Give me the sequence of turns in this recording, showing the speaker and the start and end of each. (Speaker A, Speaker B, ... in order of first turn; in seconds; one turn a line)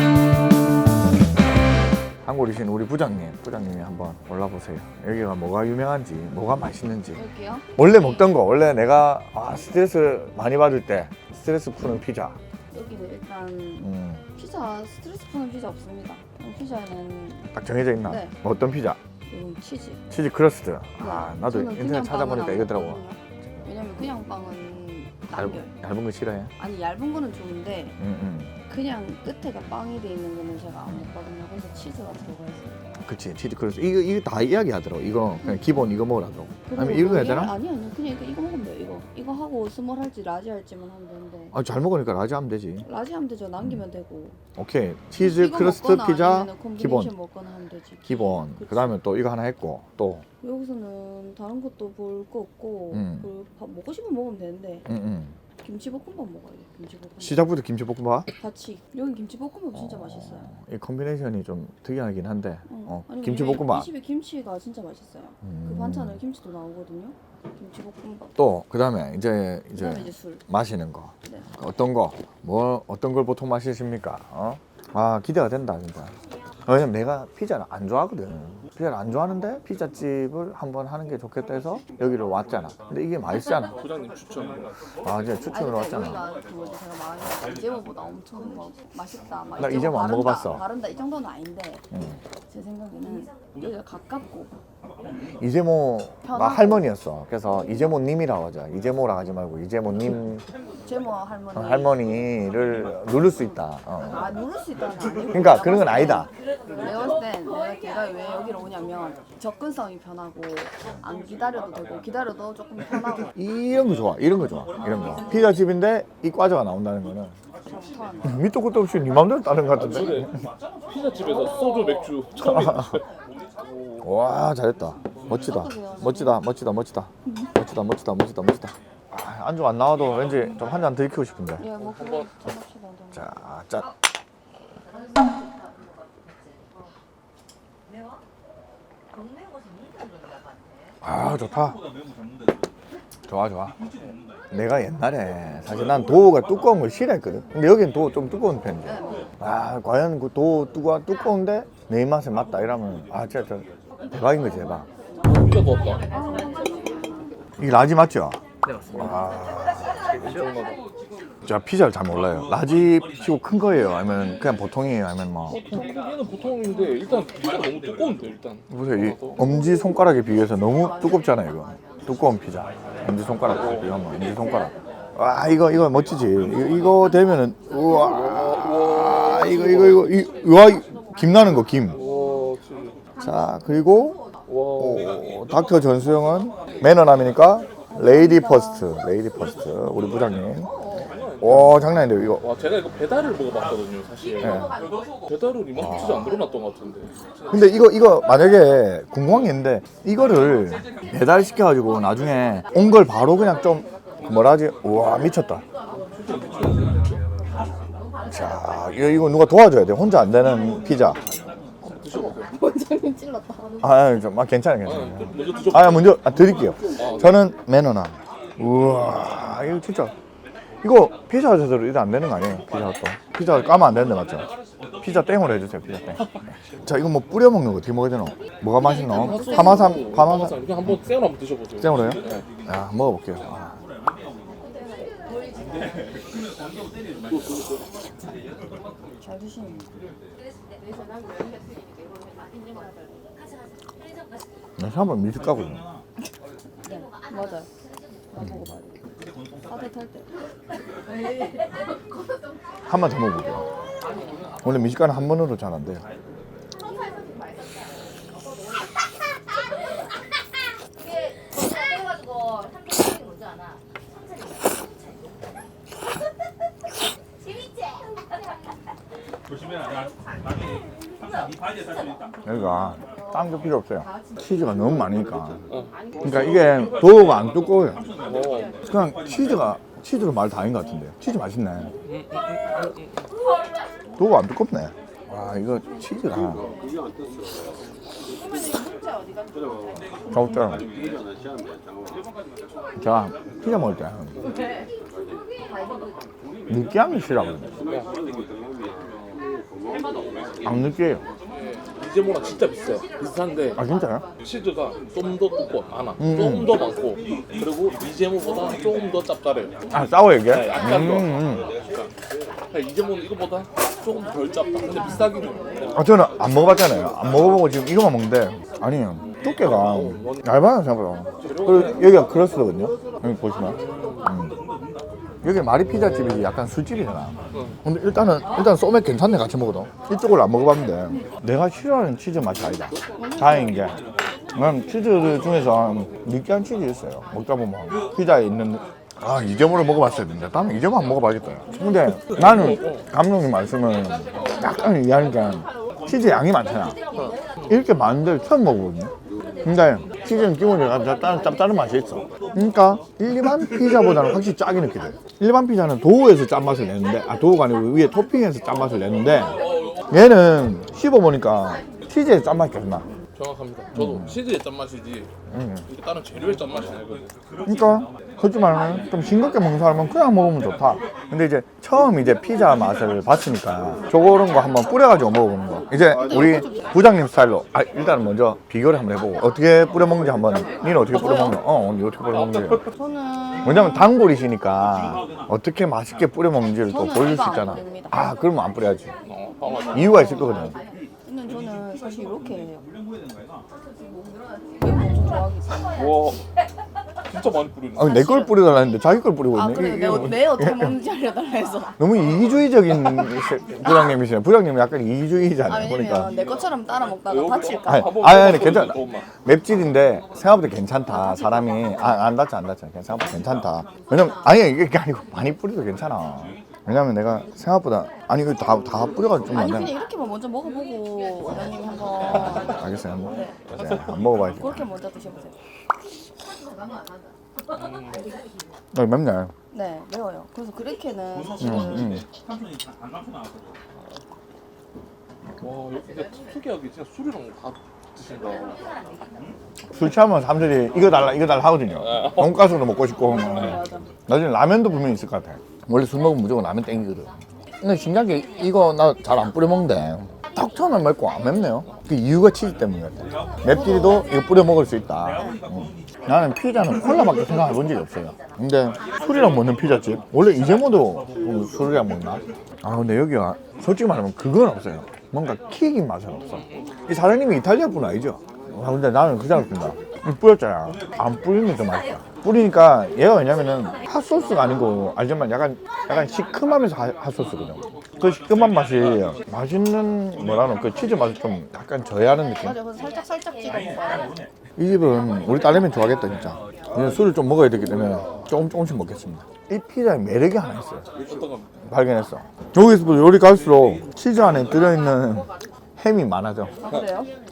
Speaker A: 2.2-7.2
Speaker B: 7.1-8.3
Speaker A: 7.8-12.4
Speaker B: 12.7-17.5
Speaker A: 13.8-14.3
Speaker A: 17.5-19.0
Speaker B: 18.1-18.3
Speaker B: 19.3-20.0
Speaker A: 20.1-23.0
Speaker B: 21.0-25.8
Speaker A: 25.3-26.5
Speaker B: 26.6-28.0
Speaker A: 28.0-28.6
Speaker B: 28.7-33.0
Speaker A: 33.0-37.5
Speaker B: 36.6-41.5
Speaker A: 41.5-42.9
Speaker B: 42.8-44.4
Speaker A: 44.5-47.1
Speaker B: 45.2-49.0
Speaker A: 48.0-50.2
Speaker B: 50.4-54.9
Speaker A: 52.9-53.3
Speaker A: 54.9-55.4
Speaker B: 55.6-57.5
Speaker A: 57.2-58.3
Speaker B: 58.4-60.5
Speaker A: 59.7-63.9
Speaker B: 62.7-68.3
Speaker A: 65.4-66.2
Speaker A: 68.3-76.2
Speaker B: 69.8-70.4
Speaker A: 76.7-83.8
Speaker C: 83.8-84.8
Speaker A: 85.0-86.2
Speaker B: 85.4-91.8
Speaker A: 89.6-90.6
Speaker A: 91.9-92.2
Speaker B: 92.5-94.5
Speaker A: 95.4-100.5
Speaker B: 96.2-96.9
Speaker B: 100.8-102.1
Speaker A: 101.5-104.3
Speaker B: 104.1-113.3
Speaker A: 105.3-106.3
Speaker A: 113.3-117.3
Speaker B: 117.7-118.4
Speaker A: 118.2-120.3
Speaker C: 119.7-120.3
Speaker C: 120.9-124.1
Speaker B: 121.2-121.9
Speaker A: 122.4-123.0
Speaker A: 124.0-131.7
Speaker B: 125.3-126.4
Speaker B: 131.6-133.3
Speaker C: 131.8-132.3
Speaker A: 133.1-133.9
Speaker A: 141.0-141.8
Speaker A: 143.3-143.8
Speaker A: 144.5-154.9
Speaker B: 148.8-149.3
Speaker C: 155.2-156.1
Speaker B: 156.1-157.0
Speaker A: 157.6-158.4
Speaker C: 158.6-159.2
Speaker A: 158.9-160.2
Speaker C: 160.1-160.8
Speaker A: 161.4-165.6
Speaker C: 165.5-169.4
Speaker A: 168.7-182.0
Speaker C: 173.5-173.9
Speaker C: 177.9-180.1
Speaker C: 181.9-183.0
Speaker A: 183.2-184.2
Speaker C: 184.5-185.1
Speaker A: 184.8-190.7
Speaker B: 187.9-188.9
Speaker C: 190.9-191.9
Speaker A: 191.4-192.4
Speaker C: 192.4-194.7
Speaker A: 194.4-194.7
Speaker C: 195.2-197.8
Speaker A: 195.8-196.3
Speaker A: 197.5-205.6
Speaker C: 205.9-207.2
Speaker A: 208.2-211.2
Speaker C: 211.8-212.5
Speaker B: 212.1-213.8
Speaker A: 213.8-220.1
Speaker C: 214.8-216.2
Speaker C: 216.9-217.3
Speaker A: 220.8-224.5
Speaker A: 225.0-226.2
Speaker A: 226.8-231.0
Speaker C: 228.8-232.4
Speaker B: 228.9-230.1
Speaker A: 231.8-233.8
Speaker B: 239.2-239.8
Speaker A: 244.8-245.9
Speaker B: 246.8-247.7
Speaker B: 248.3-249.0
Speaker B: 249.7-250.3
Speaker A: 252.8-253.7
Speaker A: 254.6-256.1
Speaker A: 272.4-275.6
Speaker A: 276.2-278.1
Speaker C: 278.2-278.8
Speaker A: 278.9-281.9
Speaker C: 282.0-283.2
Speaker A: 284.2-286.7
Speaker A: 290.3-290.9
Speaker A: 292.9-294.4
Speaker A: 296.7-297.8
Speaker C: 297.9-298.1
Speaker A: 300.6-301.2
Speaker C: 301.5-303.8
Speaker A: 303.8-304.2
Speaker C: 304.4-309.8
Speaker A: 306.2-306.8
Speaker A: 309.9-311.7
Speaker C: 310.5-312.1
Speaker C: 312.7-315.9
Speaker A: 315.9-324.6
Speaker C: 319.6-320.4
Speaker C: 321.4-322.2
Speaker C: 323.6-324.3
Speaker A: 325.4-334.0
Speaker B: 333.2-333.8
Speaker A: 334.5-347.0
Speaker C: 342.3-343.0
Speaker C: 347.2-347.7
Speaker A: 347.7-349.1
Speaker A: 349.6-363.1
Speaker C: 359.5-360.2
Speaker C: 363.3-365.3
Speaker A: 363.9-364.4
Speaker A: 365.5-365.9
Speaker C: 365.9-367.3
Speaker A: 367.6-382.8
Speaker B: 376.1-376.9
Speaker B: 381.1-381.6
Speaker C: 382.3-382.8
Speaker B: 382.9-384.1
Speaker A: 383.6-389.1
Speaker B: 386.9-388.3
Speaker C: 389.2-390.2
Speaker B: 389.9-392.9
Speaker A: 389.9-390.8
Speaker B: 394.8-396.1
Speaker C: 395.9-396.4
Speaker C: 397.3-398.1
Speaker A: 397.9-401.0
Speaker B: 398.0-398.8
Speaker B: 399.5-402.0
Speaker A: 402.0-406.3
Speaker B: 405.6-408.1
Speaker C: 407.2-409.3
Speaker A: 407.8-419.9
Speaker B: 419.5-423.5
Speaker A: 422.3-424.9
Speaker C: 423.7-424.1
Speaker B: 424.4-425.6
Speaker C: 427.8-428.2
Speaker A: 428.9-429.5
Speaker B: 429.7-432.2
Speaker A: 431.6-432.2
Speaker C: 435.6-438.8
Speaker A: 439.9-482.8
Speaker C: 442.0-442.5
Speaker B: 443.2-444.1
Speaker B: 453.6-454.3
Speaker C: 466.5-466.9
Speaker B: 482.6-484.4
Speaker A: 484.8-491.1
Speaker C: 491.2-491.7
Speaker A: 491.9-496.8
Speaker B: 496.8-497.3